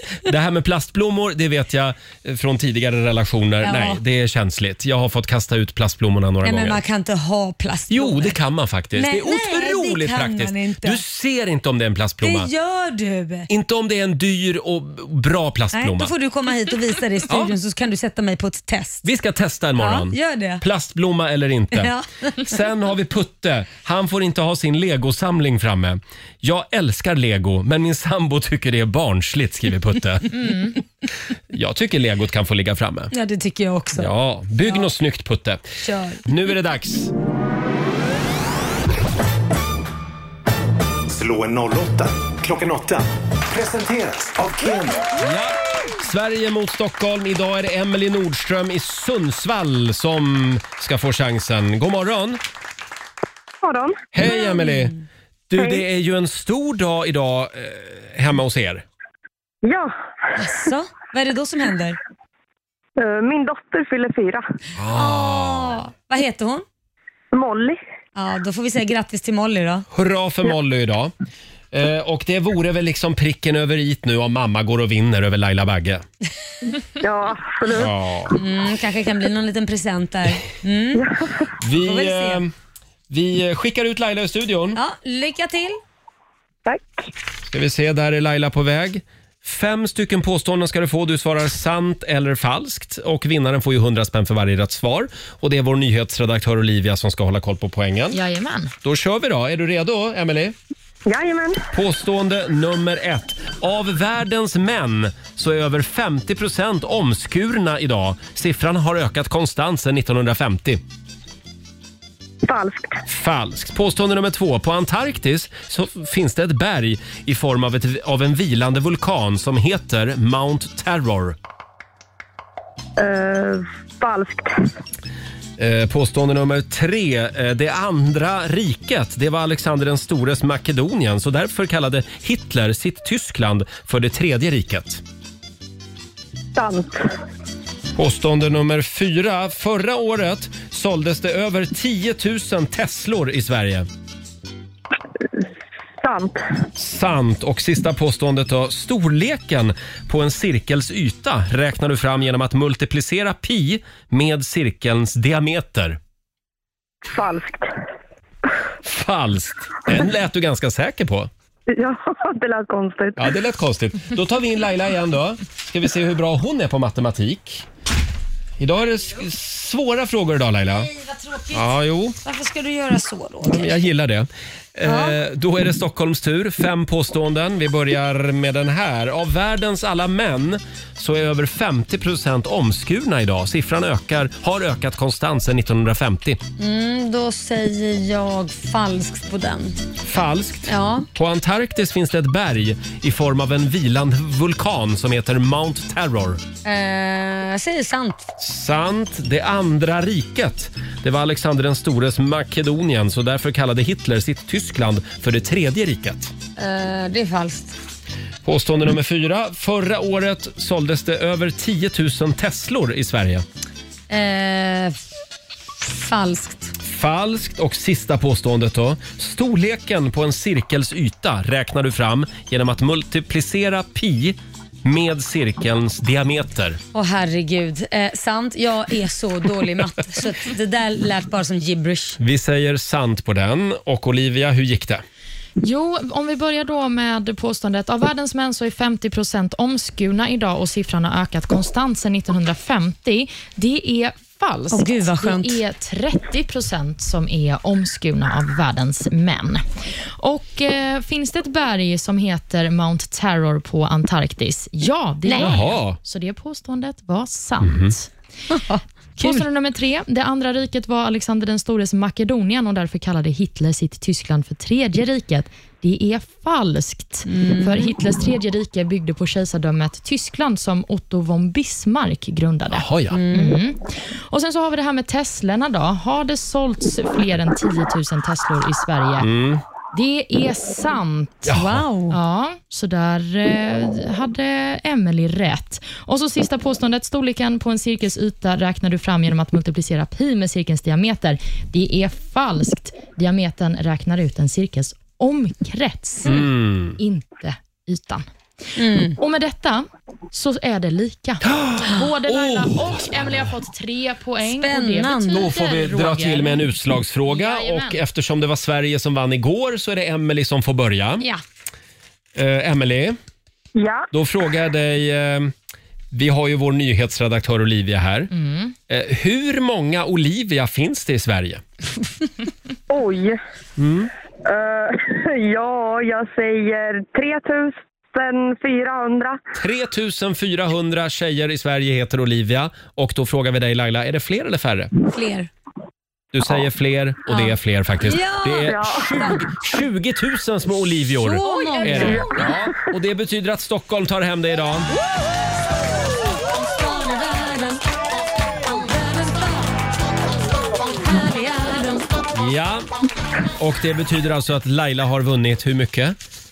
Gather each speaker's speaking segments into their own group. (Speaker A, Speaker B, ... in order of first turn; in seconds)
Speaker A: 0.2-6.8, 7.9-12.5, 13.5-16.1, 17.3-17.5, 19.0-30.6, 31.5-33.1, 34.0-35.6, 36.2-37.1, 45.2-52.4, 54.1-54.9, 55.5-58.8, 64.7-65.8, 69.9-71.1, 71.7-76.0, 77.7-78.4, 81.6-82.5, 83.1-84.8, 87.5-98.2, 98.8-100.5, 101.7-110.8, 113.1-121.4, 125.6-135.0, 137.9-143.9, 146.8-156.0, 158.8-161.3, 163.2-167.7, 168.6-170.9, 171.5-172.2, 173.4-186.4, 190.0-196.4, 198.4-206.3, 208.4-213.4, 216.8-226.8, 232.2-235.0, 255.4-256.0, 257.6-257.9, 272.7-273.2, 279.2-279.6, 281.4-281.9, 296.2-297.0, 301.4-303.4, 305.3-311.3, 312.3-313.2, 314.1-315.5, 316.1-318.3, 318.9-321.6, 323.8-324.1, 329.5-334.9, 336.3-344.9, 352.3-352.9, 353.6-356.1
Speaker B: 3.6-4.0, 6.4-8.3, 8.9-11.0, 12.2-13.5, 15.7-19.1, 19.8-20.6, 21.7-22.1, 33.1-34.1, 35.8-36.2, 54.5-54.9, 60.4-62.0, 64.9-66.6, 68.2-69.8, 78.3-81.0, 81.8-82.4, 84.8-85.8, 170.8-171.7, 172.2-173.8, 174.8-175.2, 186.6-189.8, 190.7-191.1, 196.6-198.3, 206.6-207.8, 214.1-215.0, 215.8-216.7, 226.9-232.2, 244.7-245.6, 255.3-255.5, 258.5-259.4, 267.3-267.9, 273.1-273.6, 281.5-282.1, 298.8-299.1, 304.4-305.5, 335.1-335.5, 337.3-339.4, 341.2-342.4, 346.8-347.8, 348.7-349.6, 351.1-352.0
Speaker C: 41.1-45.2
Speaker D: 53.6-54.1, 55.5-55.8, 59.6-60.6, 63.0-64.4, 67.3-67.8, 77.0-77.9, 80.9-81.5, 86.7-87.0, 101.0-101.6, 112.4-113.0, 123.0-124.6, 136.5-137.1, 146.0-146.4, 157.1-157.7, 161.7-163.3, 313.8-314.1, 322.9-323.4, 324.4-329.4, 338.6-339.2
Speaker E: 98.1-98.7, 235.6-249.6, 250.2-258.1, 259.2-279.3, 279.9-281.5, 282.1-298.2, 299.2-306.6, 307.3-308.0, 318.3-318.7